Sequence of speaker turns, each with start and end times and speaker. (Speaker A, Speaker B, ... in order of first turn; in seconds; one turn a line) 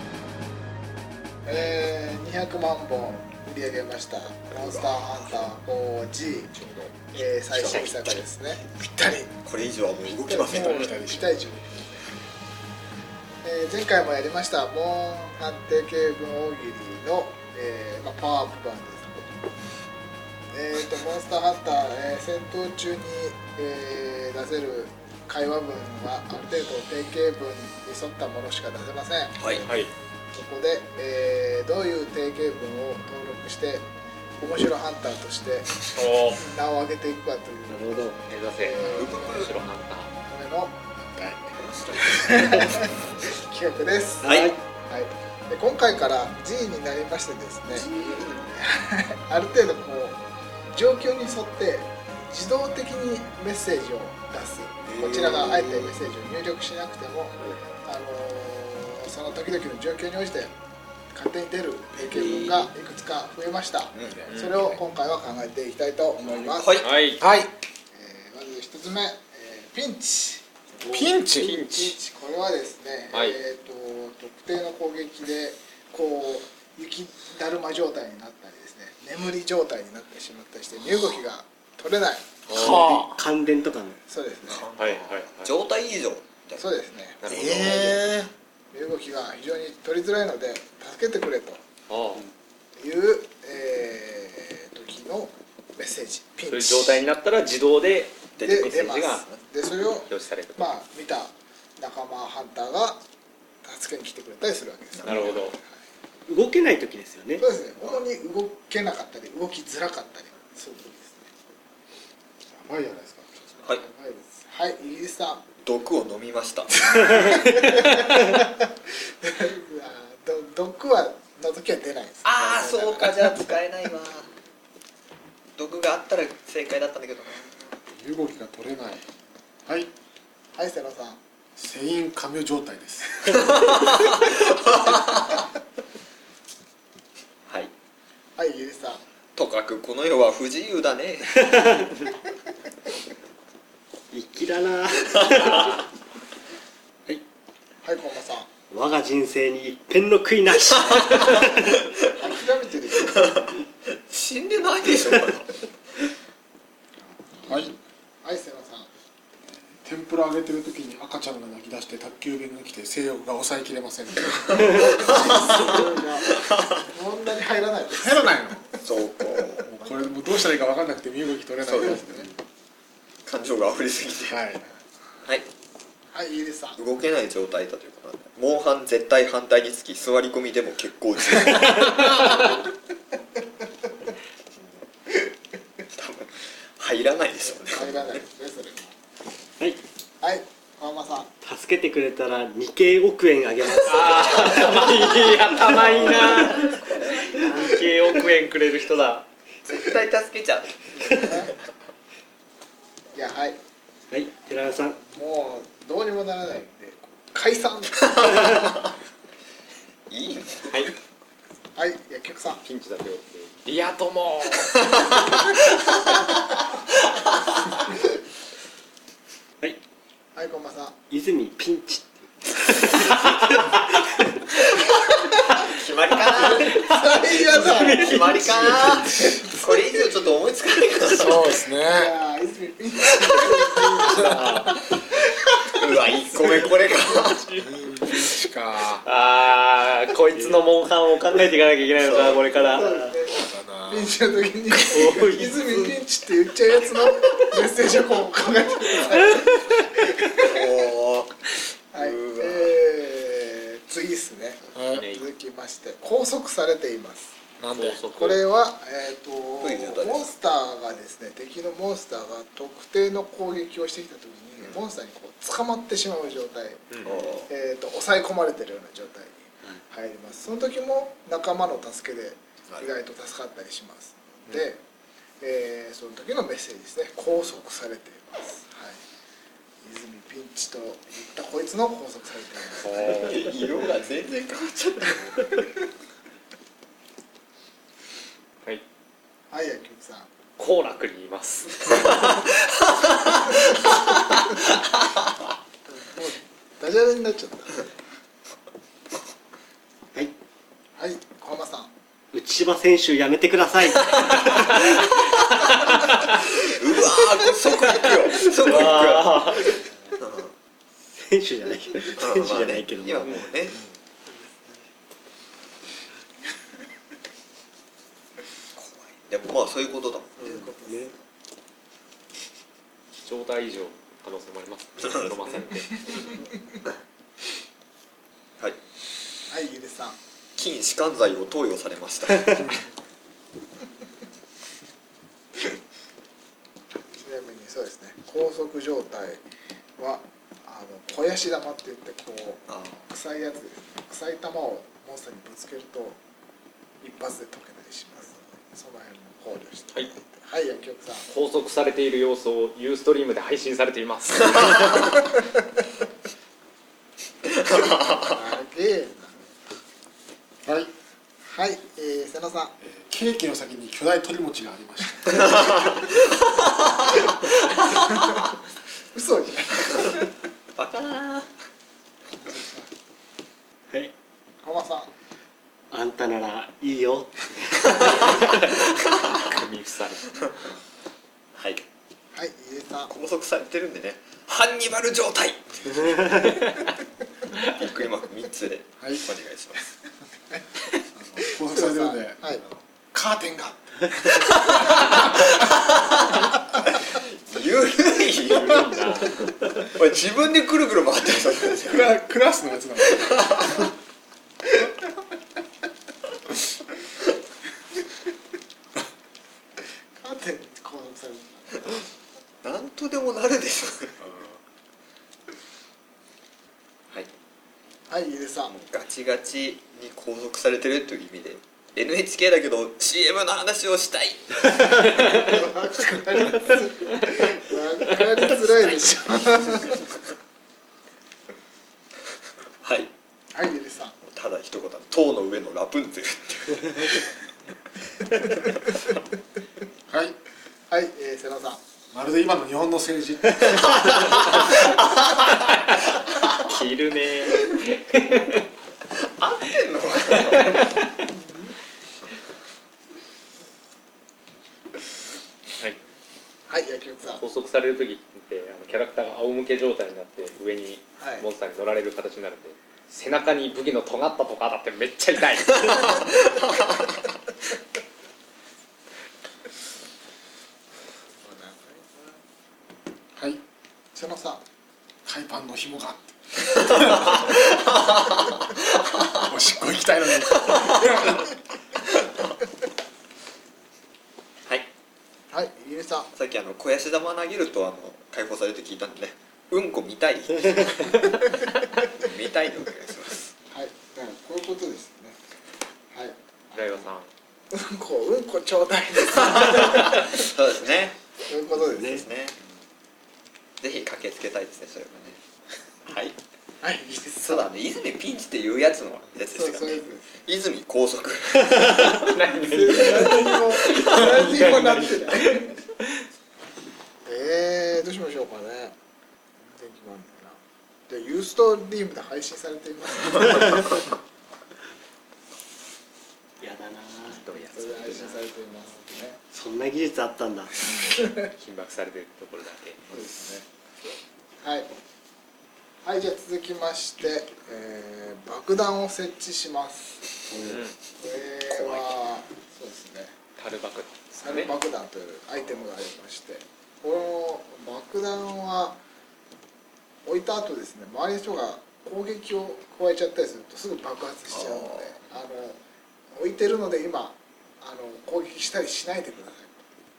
Speaker A: 1.4-6.6
Speaker B: 4.5-5.4
Speaker A: 7.1-9.3
Speaker C: 7.6-8.0
Speaker B: 9.4-10.9
Speaker A: 10.2-12.1
Speaker D: 10.5-11.4
Speaker A: 13.4-19.4
Speaker A: 20.5-29.7
Speaker B: 29.4-29.6
Speaker C: 29.6-29.9
Speaker A: 30.3-33.9
Speaker A: 34.4-39.5
Speaker C: 36.0-36.5
Speaker E: 37.7-38.2
Speaker C: 38.3-40.1
Speaker B: 38.9-39.5
Speaker A: 40.3-40.8
Speaker D: 41.1-41.5
Speaker B: 41.7-42.9
Speaker A: 42.0-47.9
Speaker E: 44.2-44.6
Speaker B: 44.2-44.5
Speaker B: 47.8-48.5
Speaker A: 48.5-50.2
Speaker A: 50.7-60.5
Speaker B: 54.9-55.9
Speaker A: 61.1-66.8
Speaker D: 64.0-64.6
Speaker C: 64.3-64.6
Speaker D: 66.2-66.6
Speaker B: 66.5-66.9
Speaker C: 66.8-67.2
Speaker D: 67.2-67.5
Speaker A: 67.9-82.4
Speaker D: 70.9-71.8
Speaker C: 71.0-71.9
Speaker C: 82.5-83.0
Speaker E: 82.5-84.0
Speaker D: 82.5-83.2
Speaker A: 84.1-84.7
Speaker B: 84.5-86.6
Speaker C: 84.8-85.5
Speaker A: 86.6-91.6
Speaker C: 87.2-88.1
Speaker C: 91.9-92.2
Speaker A: 92.8-97.0
Speaker C: 96.5-99.2
Speaker B: 98.4-99.4
Speaker A: 98.4-103.0
Speaker C: 100.1-100.8
Speaker A: 103.6-105.6
Speaker B: 105.0-105.4
Speaker C: 105.0-105.6
Speaker E: 106.3-107.4
Speaker A: 107.4-111.3
Speaker D: 112.5-113.6
Speaker A: 113.7-115.4
Speaker B: 115.6-117.5
Speaker A: 117.0-123.5
Speaker B: 122.2-124.3
Speaker B: 125.6-127.7
Speaker D: 127.9-129.1
Speaker A: 130.6-131.2
Speaker D: 131.6-133.3
Speaker B: 133.5-135.0
Speaker A: 138.4-139.0
Speaker B: 139.3-141.9
Speaker E: 144.1-145.9
Speaker C: 145.4-145.8
Speaker A: 147.8-148.5
Speaker E: 148.7-151.7
Speaker A: 152.1-153.3
Speaker B: 153.0-155.6
Speaker A: 157.3-158.9
Speaker D: 157.5-157.7
Speaker D: 159.8-164.9
Speaker A: 164.7-168.3
Speaker D: 167.9-168.7
Speaker B: 168.8-169.7
Speaker D: 169.6-172.3
Speaker B: 171.8-172.3
Speaker B: 173.3-174.4
Speaker D: 174.3-174.6
Speaker A: 176.1-176.8
Speaker B: 176.8-182.4
Speaker B: 185.9-188.0
Speaker A: 187.6-188.9
Speaker A: 190.2-191.3
Speaker E: 191.4-196.8
Speaker C: 193.9-199.3
Speaker B: 196.3-197.8
Speaker B: 199.7-201.5
Speaker A: 201.2-201.5
Speaker A: 203.1-203.6
Speaker E: 204.1-205.0
Speaker A: 205.0-208.4
Speaker B: 210.1-210.9
Speaker A: 211.8-212.6
Speaker C: 212.6-215.0
Speaker A: 220.4-220.9
Speaker E: 221.1-224.2
Speaker B: 225.6-226.9
Speaker A: 226.4-228.4
Speaker C: 226.6-228.6
Speaker B: 227.5-231.5
Speaker D: 228.4-229.4
Speaker A: 229.2-229.6
Speaker D: 231.1-232.1
Speaker A: 231.9-234.7
Speaker D: 234.1-234.4
Speaker C: 234.2-234.8
Speaker B: 235.8-237.5
Speaker C: 237.3-237.7
Speaker D: 237.7-239.0
Speaker C: 239.0-242.9
Speaker E: 240.3-240.6
Speaker B: 242.0-242.6
Speaker A: 242.7-250.6
Speaker E: 242.8-243.1
Speaker D: 243.2-244.1
Speaker C: 244.9-245.5
Speaker B: 250.4-252.8
Speaker A: 251.9-257.4
Speaker D: 254.8-255.1
Speaker C: 254.9-255.2
Speaker D: 257.6-258.0
Speaker C: 257.7-258.4
Speaker A: 258.1-274.8
Speaker B: 259.6-260.3
Speaker B: 267.1-267.5
Speaker A: 275.4-279.0
Speaker A: 279.8-283.3
Speaker C: 282.8-283.5
Speaker B: 282.9-285.4
Speaker A: 289.5-290.3
Speaker C: 290.6-292.3
Speaker B: 292.3-293.0
Speaker A: 295.9-297.8
Speaker A: 301.0-301.9
Speaker E: 302.3-305.1
Speaker B: 306.4-310.5
Speaker C: 308.5-309.7
Speaker E: 311.2-313.5
Speaker B: 312.1-313.8
Speaker B: 318.8-320.5
Speaker A: 320.4-321.1
Speaker E: 320.4-321.1
Speaker C: 323.2-326.4
Speaker A: 329.5-330.2
Speaker B: 330.6-332.8
Speaker A: 337.2-339.4
Speaker A: 340.0-346.2
Speaker B: 342.7-343.0
Speaker A: 347.0-351.3
Speaker C: 351.3-355.1
Speaker B: 357.5-358.3
Speaker A: 358.2-359.4
Speaker D: 360.6-360.9
Speaker A: 361.4-362.7
Speaker D: 362.9-365.7
Speaker A: 369.1-370.3
Speaker B: 370.8-371.5
Speaker A: 372.5-372.8
Speaker A: 374.6-375.1
Speaker E: 375.9-378.7
Speaker C: 378.7-380.3
Speaker B: 381.6-381.8
Speaker A: 382.3-383.1
Speaker B: 383.1-386.6
Speaker B: 387.5-389.9
Speaker D: 389.0-389.3
Speaker D: 391.2-394.7
Speaker A: 391.4-392.6
Speaker B: 394.7-396.2
Speaker B: 397.0-398.9
Speaker C: 398.5-399.5
Speaker B: 399.8-402.1
Speaker D: 401.9-403.7
Speaker B: 403.2-403.8
Speaker A: 410.2-412.0
Speaker B: 412.6-414.2
Speaker A: 418.1-418.7
Speaker B: 418.7-425.2
Speaker A: 425.3-430.0
Speaker B: 432.8-433.1
Speaker A: 433.5-434.1
Speaker B: 434.2-437.3
Speaker D: 440.1-440.4
Speaker A: 440.9-441.8
Speaker D: 442.1-444.0
Speaker C: 446.6-448.6
Speaker B: 449.2-451.0
Speaker C: 450.5-451.0
Speaker A: 456.7-457.4
Speaker C: 457.4-466.3
Speaker A: 461.2-461.4
Speaker A: 471.4-472.4
Speaker D: 473.4-473.6
Speaker A: 474.1-474.6
Speaker D: 475.2-477.4
Speaker B: 477.3-479.4
Speaker D: 479.4-481.5
Speaker B: 480.6-481.0
Speaker A: 485.5-486.3
Speaker B: 486.4-493.5
Speaker A: 493.7-495.4
Speaker A: 496.1-497.1
Speaker C: 496.8-497.3
Speaker A: 497.7-500.2
Speaker B: 499.6-501.2
Speaker A: 501.5-502.2
Speaker E: 501.8-502.2
Speaker B: 502.1-502.6
Speaker B: 503.8-505.4
Speaker B: 506.1-506.4
Speaker A: 506.8-507.7
Speaker B: 507.4-512.4
Speaker A: 509.5-510.4
Speaker C: 512.1-515.6
Speaker A: 512.6-515.7
Speaker A: 517.3-519.0
Speaker A: 519.7-524.0
Speaker E: 526.6-527.5
Speaker C: 527.3-528.4
Speaker A: 527.7-529.4
Speaker E: 529.5-531.2
Speaker A: 530.9-531.5
Speaker C: 531.5-533.0
Speaker A: 533.1-533.7
Speaker A: 534.6-534.9
Speaker A: 536.0-540.2
Speaker C: 540.6-541.0
Speaker A: 541.2-543.4
Speaker C: 543.6-544.7
Speaker A: 544.3-549.0
Speaker A: 550.3-555.8
Speaker B: 554.5-555.1
Speaker A: 556.4-559.8